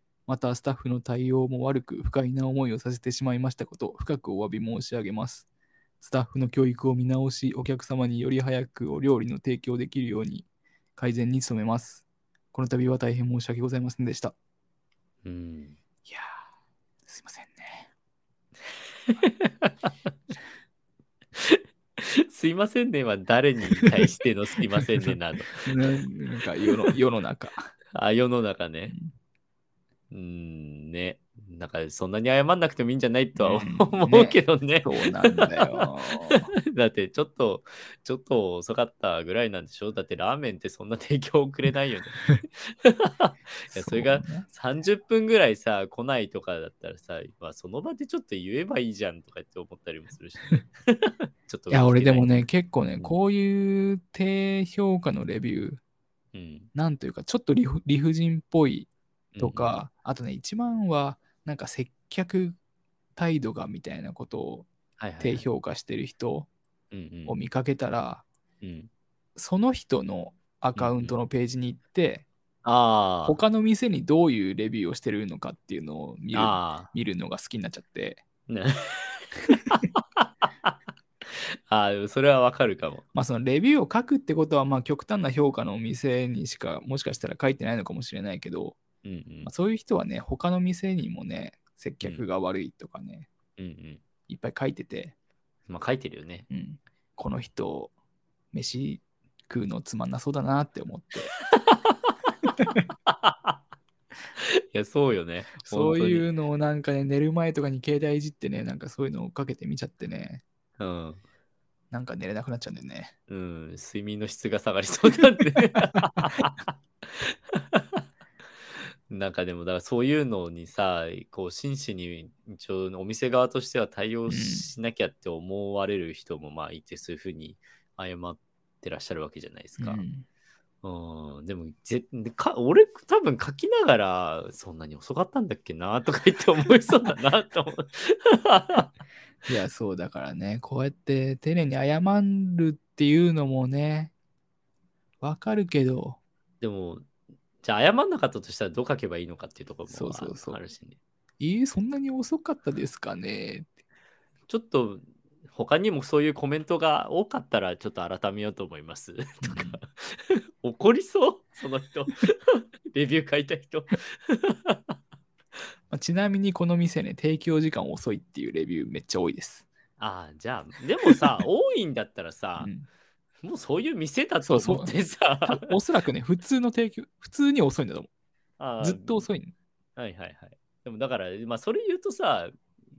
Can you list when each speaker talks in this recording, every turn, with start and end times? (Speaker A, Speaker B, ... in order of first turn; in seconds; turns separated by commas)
Speaker A: 0.3-5.5, Speaker A: 6.0-10.5, Speaker A: 11.0-14.3, Speaker B: 15.2-15.8, Speaker A: 16.1-16.4, Speaker A: 17.1-17.9, Speaker B: 19.1-19.9, Speaker B: 21.4-25.7, Speaker A: 25.6-27.7, Speaker B: 27.9-29.0, Speaker B: 30.1-52.4, Speaker A: 33.4-36.5, Speaker A: 43.7-44.5, Speaker A: 51.7-55.8, Speaker B: 56.3-56.7, Speaker A: 56.7-62.6, Speaker B: 59.4-59.8, Speaker A: 63.2-64.7, Speaker B: 65.0-65.5, Speaker A: 65.2-66.5, Speaker B: 66.9-67.4, Speaker A: 67.3-68.2, Speaker B: 68.6-68.9, Speaker A: 69.4-72.3, Speaker B: 70.8-71.2, Speaker B: 72.6-73.4, Speaker A: 73.2-78.2, Speaker B: 76.3-76.9, Speaker B: 78.5-80.7, Speaker B: 81.3-83.0, Speaker A: 83.1-88.8, Speaker B: 89.0-89.5, Speaker A: 89.5-93.3, Speaker B: 93.6-94.0, Speaker A: 94.3-95.2, Speaker B: 95.7-96.5, Speaker A: 96.5-97.9, Speaker A: 98.5-101.3, Speaker B: 101.5-102.0, Speaker B: 103.1-103.6, Speaker B: 104.4-106.3, Speaker A: 105.6-110.4, Speaker B: 110.8-111.2, Speaker A: 111.9-113.1, Speaker B: 113.3-118.0, Speaker B: 119.1-130.0, Speaker A: 124.3-124.7, Speaker A: 129.8-130.2, Speaker B: 130.8-138.9, Speaker A: 139.5-144.1, Speaker A: 145.2-146.2, Speaker B: 146.6-147.1, Speaker B: 147.6-151.0, Speaker A: 149.9-150.6, Speaker A: 151.4-153.7, Speaker B: 154.5-164.8, Speaker A: 159.4-159.8, Speaker A: 165.9-169.7, Speaker B: 170.0-172.7, Speaker A: 172.6-172.9, Speaker B: 173.4-175.8, Speaker A: 174.4-174.9, Speaker A: 175.5-178.1, Speaker B: 178.6-179.3, Speaker A: 178.8-179.5, Speaker B: 180.0-182.5